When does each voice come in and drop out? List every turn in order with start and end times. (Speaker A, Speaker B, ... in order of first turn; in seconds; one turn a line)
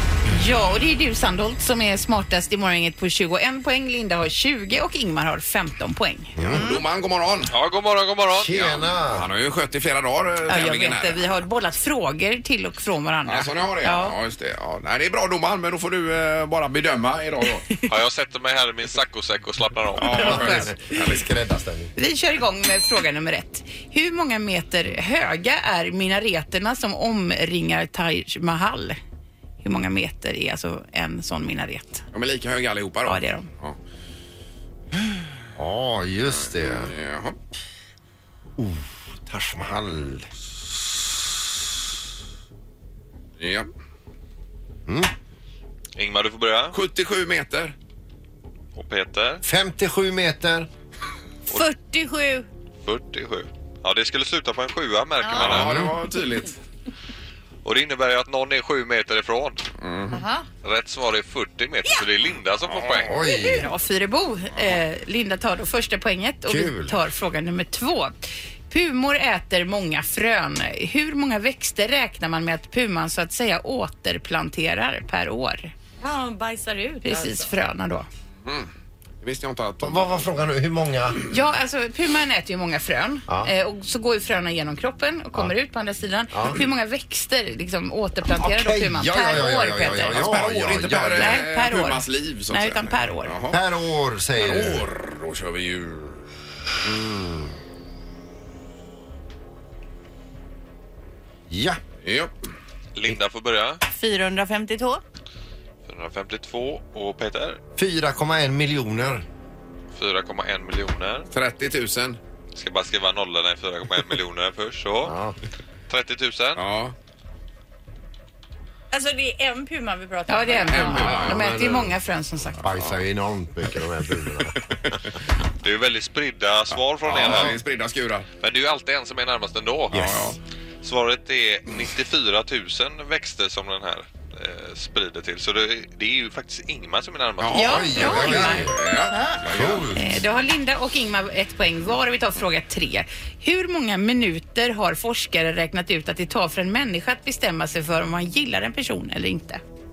Speaker A: 0.3-6.3
Speaker B: 6.4-6.7
Speaker C: 6.4-7.5
Speaker D: 6.5-6.8
Speaker E: 7.5-8.6
Speaker B: 8.3-9.3
Speaker C: 8.6-11.2
Speaker A: 10.5-14.2
Speaker C: 13.3-17.7
Speaker E: 17.9-20.5
Speaker C: 20.0-21.3
Speaker A: 20.1-20.5
Speaker B: 20.2-21.9
Speaker A: 22.0-29.0
Speaker A: 29.6-32.0
Speaker C: 32.1-33.8
Speaker A: 33.1-33.5
Speaker B: 35.6-36.9
Speaker C: 36.5-37.4
Speaker B: 38.6-40.3
Speaker C: 43.4-43.7
Speaker E: 46.0-46.8
Speaker C: 46.7-47.8
Speaker E: 48.8-49.4
Speaker B: 49.4-50.7
Speaker D: 51.5-52.5
Speaker E: 52.9-55.9
Speaker D: 55.2-55.6
Speaker C: 55.4-56.6
Speaker B: 55.4-55.9
Speaker E: 57.6-59.6
Speaker C: 59.8-60.2
Speaker D: 60.1-60.5
Speaker E: 60.6-63.2
Speaker C: 62.7-63.1
Speaker B: 63.0-63.7
Speaker A: 63.2-68.2
Speaker B: 66.5-67.0
Speaker A: 68.7-75.7
Speaker D: 76.0-77.5
Speaker A: 77.0-78.1
Speaker C: 78.5-78.7
Speaker C: 79.2-80.3
Speaker B: 79.8-81.2
Speaker A: 81.3-90.3
Speaker B: 83.3-83.5
Speaker B: 86.3-86.6
Speaker B: 88.3-91.4
Speaker C: 90.1-93.6
Speaker A: 91.2-93.3
Speaker B: 93.5-94.9
Speaker C: 94.4-96.2
Speaker B: 101.5-101.8
Speaker C: 102.0-102.3
Speaker E: 103.0-103.8
Speaker D: 103.9-105.0
Speaker E: 105.9-107.6
Speaker B: 107.8-109.2
Speaker E: 110.0-111.3
Speaker C: 111.3-112.2
Speaker E: 112.5-115.2
Speaker B: 115.0-115.4
Speaker E: 115.9-116.6
Speaker C: 116.6-116.9
Speaker D: 118.9-121.2
Speaker A: 120.3-122.7
Speaker C: 120.7-121.4
Speaker B: 121.0-122.0
Speaker B: 122.6-124.6
Speaker E: 125.6-127.6
Speaker C: 126.7-128.3
Speaker B: 127.2-127.5
Speaker E: 128.4-130.1
Speaker B: 129.9-130.3
Speaker C: 129.9-130.4
Speaker E: 130.8-138.3
Speaker C: 137.4-139.9
Speaker A: 137.5-138.7
Speaker B: 137.6-138.8
Speaker D: 139.1-139.4
Speaker B: 139.5-140.0
Speaker A: 139.9-149.6